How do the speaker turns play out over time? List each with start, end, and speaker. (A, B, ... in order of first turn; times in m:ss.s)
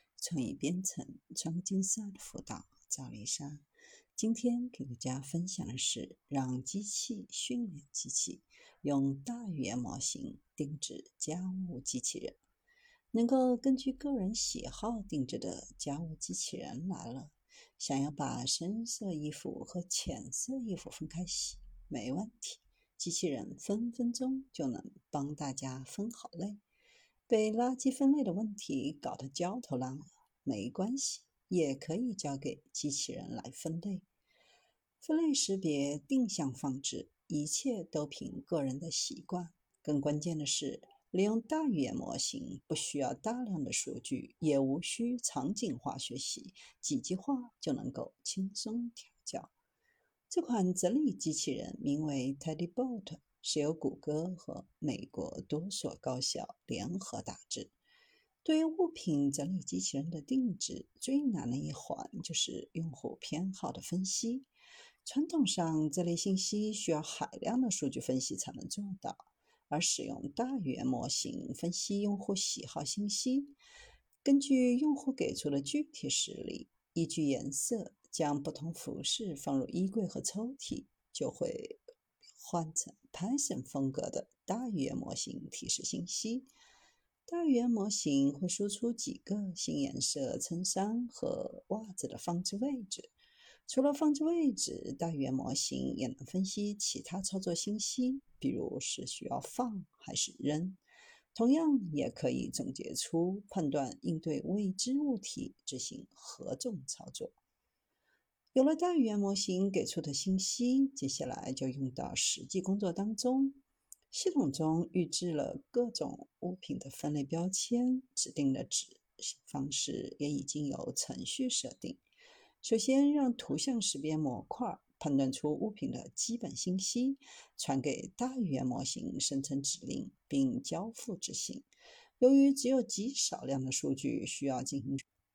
0:00.2-0:03.6 A
0:04.2-0:12.4 A
0:13.1-0:26.6 A
0:27.3-0:34.1 A
0:35.0-0:49.5 A
0:50.3-0:57.7 A
0:58.4-1:04.5 A
1:05.0-1:13.6 A
1:14.2-1:21.8 A
1:22.4-1:26.5 A
1:27.3-1:33.1 A
1:33.7-1:40.8 A
1:41.3-1:47.4 A
1:48.5-1:53.6 A
1:54.1-2:02.0 A
2:02.6-2:11.7 A
2:12.2-2:15.0 A